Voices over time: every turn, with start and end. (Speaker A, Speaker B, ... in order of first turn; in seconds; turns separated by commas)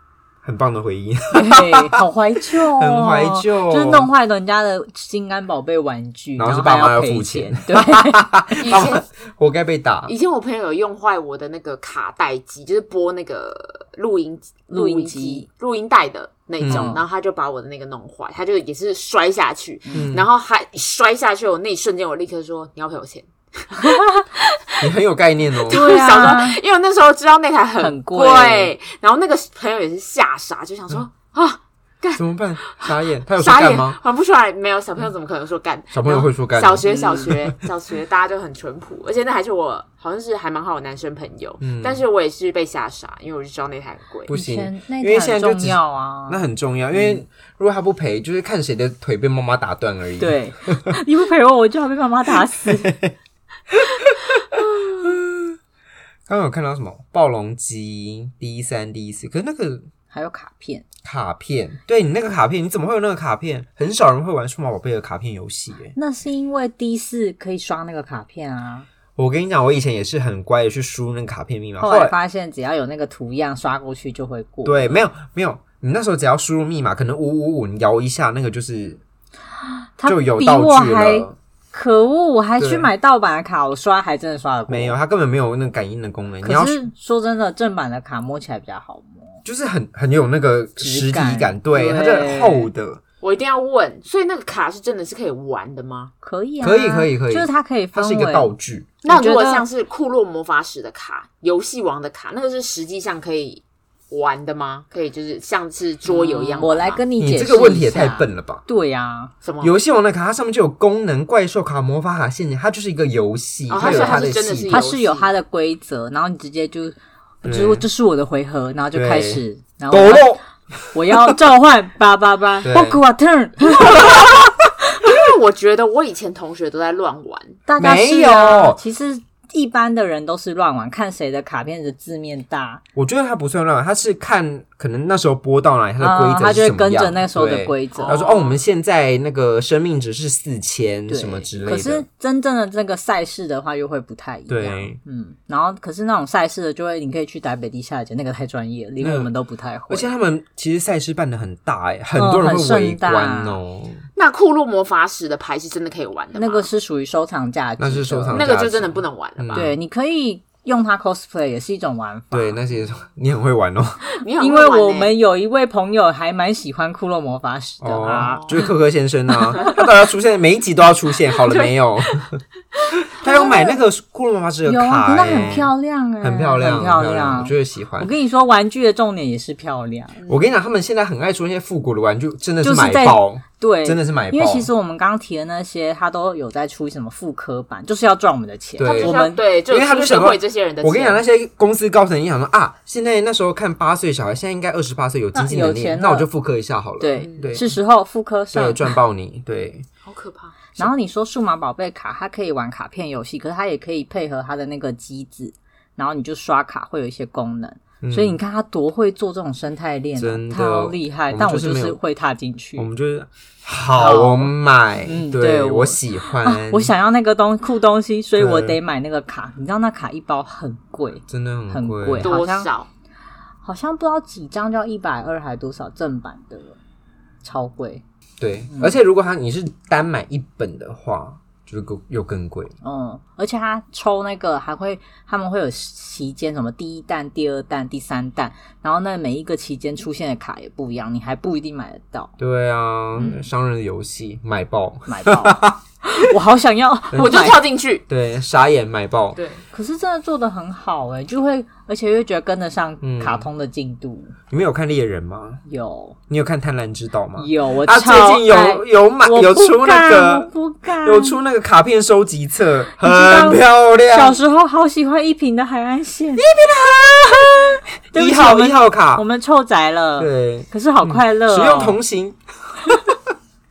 Speaker A: 0.4-2.0, Speaker B: 1.3-8.8, Speaker A: 2.6-4.1, Speaker A: 6.4-10.1, Speaker C: 8.6-9.0, Speaker C: 10.1-24.9, Speaker B: 14.7-15.4, Speaker A: 16.6-17.0, Speaker B: 16.7-17.0, Speaker A: 19.9-20.3, Speaker B: 23.8-24.2, Speaker A: 24.8-25.8, Speaker C: 25.6-44.3, Speaker B: 25.7-26.6, Speaker B: 27.8-28.7, Speaker A: 32.1-34.0, Speaker A: 35.9-37.6, Speaker A: 41.6-42.0, Speaker A: 44.3-50.9, Speaker B: 44.3-47.2, Speaker B: 50.2-52.9, Speaker A: 52.6-53.1, Speaker A: 53.7-55.6, Speaker A: 56.3-59.9, Speaker B: 60.1-60.8, Speaker A: 61.0-65.9, Speaker B: 66.0-68.9, Speaker A: 69.2-72.1, Speaker B: 71.8-75.0, Speaker A: 74.6-79.0, Speaker B: 79.7-85.0, Speaker A: 80.0-81.3, Speaker A: 82.6-82.9, Speaker A: 84.7-86.9, Speaker B: 86.4-89.4, Speaker A: 89.4-93.0, Speaker B: 90.8-92.7, Speaker C: 93.2-96.1, Speaker B: 96.2-98.5, Speaker A: 96.6-98.9, Speaker C: 99.0-107.0, Speaker B: 99.0-99.6, Speaker B: 106.1-109.3, Speaker A: 107.2-108.6, Speaker C: 109.4-109.7, Speaker A: 109.6-114.8, Speaker C: 113.7-115.3, Speaker B: 113.8-120.4, Speaker A: 117.4-117.8, Speaker A: 118.9-121.2, Speaker B: 120.9-124.3, Speaker A: 122.6-123.0, Speaker C: 123.8-124.5, Speaker C: 125.0-127.6, Speaker B: 127.7-132.8, Speaker A: 127.8-128.8, Speaker A: 132.9-142.0, Speaker B: 136.0-138.3, Speaker C: 137.9-138.6, Speaker B: 141.1-150.1, Speaker A: 144.5-145.0, Speaker A: 149.0-149.3, Speaker A: 149.9-154.0, Speaker B: 152.2-153.6, Speaker C: 154.2-156.7, Speaker B: 156.3-158.5, Speaker A: 157.8-159.7, Speaker C: 158.3-159.7, Speaker B: 159.5-162.6, Speaker A: 162.3-164.0, Speaker C: 164.1-165.1, Speaker B: 164.4-168.7, Speaker A: 167.8-172.4, Speaker C: 168.1-168.6, Speaker C: 171.4-173.8, Speaker A: 173.0-178.1, Speaker B: 173.2-173.6, Speaker B: 174.6-180.2, Speaker C: 180.2-180.4, Speaker A: 180.3-184.7, Speaker B: 182.6-189.4, Speaker A: 188.8-197.7, Speaker C: 188.8-191.2, Speaker B: 195.3-196.3, Speaker B: 197.0-198.9, Speaker C: 197.2-197.6, Speaker A: 198.5-199.9, Speaker C: 200.1-200.6, Speaker B: 200.7-212.9, Speaker A: 208.0-208.4, Speaker A: 210.2-212.0, Speaker A: 212.8-216.9, Speaker B: 213.9-214.5, Speaker B: 215.1-222.7, Speaker A: 218.4-218.8, Speaker A: 221.3-222.3, Speaker C: 222.2-222.9, Speaker B: 223.6-226.8, Speaker B: 227.4-228.0, Speaker A: 228.4-232.7, Speaker B: 228.7-229.0, Speaker B: 232.8-242.3, Speaker A: 242.4-245.8, Speaker B: 243.2-243.4, Speaker B: 245.1-247.6, Speaker A: 247.1-247.5, Speaker C: 247.1-248.0, Speaker A: 248.1-249.4, Speaker C: 249.3-249.6, Speaker B: 249.7-254.3, Speaker A: 253.0-253.4, Speaker A: 254.5-255.6, Speaker B: 255.7-256.2, Speaker A: 256.3-260.5, Speaker B: 257.4-261.4, Speaker A: 261.0-264.4, Speaker B: 263.0-266.5, Speaker A: 266.4-269.2, Speaker B: 267.4-272.0, Speaker A: 270.2-273.1